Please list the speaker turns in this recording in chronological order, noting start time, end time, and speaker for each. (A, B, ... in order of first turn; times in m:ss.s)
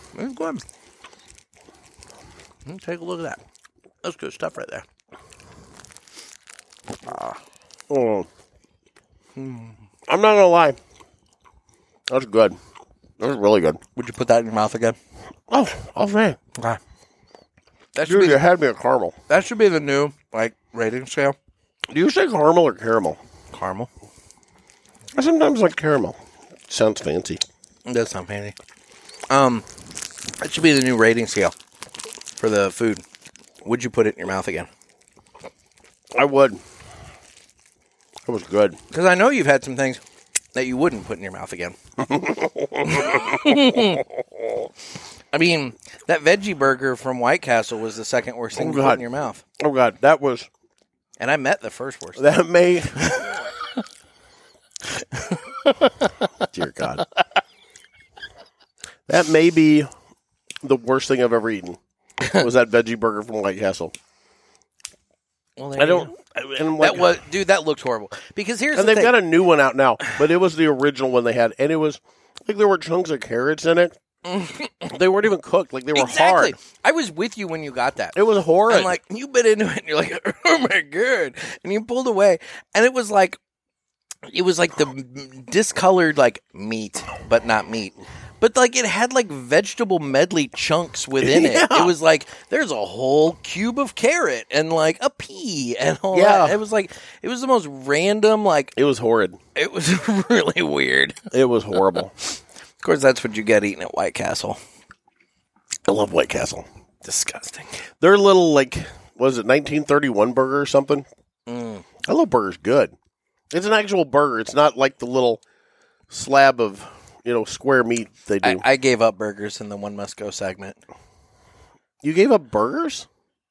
0:00.1-0:00.6 A
0:02.6-0:03.4 A
0:04.0-0:04.8 A
0:07.0-0:07.4 A
0:07.9-0:08.3 B
0:09.4-0:09.8 A
0:10.1-0:10.8 B
0:12.1-0:12.6 B
0:13.2-0:13.8 B
0:14.0-0:15.0 A
0:15.5-0:16.4 B
0:17.9-0:18.4 A
0:18.0-0:19.2 B
0:19.3-0:21.4 A
0:21.9-0:23.2 B
0:23.5-0:23.9 A
0:25.1-0:27.4 B
0:27.8-0:28.6 A
0:29.3-0:29.6 A
0:30.4-0:31.5 A
0:32.4-0:33.0 A
0:33.6-0:34.7 A
0:36.1-0:36.6 B
0:38.2-0:38.8 B
0:38.9-0:40.0 A
0:40.5-0:41.8 A
0:42.0-0:43.9 B
0:42.8-0:44.0 A
0:45.3-0:49.4 A
0:48.5-0:49.0 B
0:49.6-0:50.5 B
0:51.2-0:52.3 A
0:52.2-0:53.2 B
0:53.0-0:53.3 A
0:55.0-0:56.2 A
0:56.5-0:57.0 B
0:59.1-0:59.9 B
1:00.6-1:01.8 B
1:02.3-1:03.9 B
1:05.6-1:06.1 A
1:05.8-1:07.1 B
1:06.8-1:09.2 A
1:08.7-1:14.0 B
1:14.2-1:14.9 A
1:14.9-1:16.6 B
1:15.9-1:23.4 A
1:18.1-1:19.0 B
1:24.3-1:38.7 A
1:31.2-1:31.9 B
1:36.1-1:36.6 B
1:38.8-1:39.4 B
1:39.5-1:41.3 A
1:41.3-1:42.1 B
1:42.8-1:44.6 A
1:45.9-1:46.7 B
1:47.0-1:47.7 A
1:48.0-1:51.1 B
1:51.5-1:51.8 A
1:52.0-1:52.9 B
1:53.5-1:55.4 B
1:56.1-1:58.6 B
1:58.4-2:00.8 A
2:02.0-2:03.1 B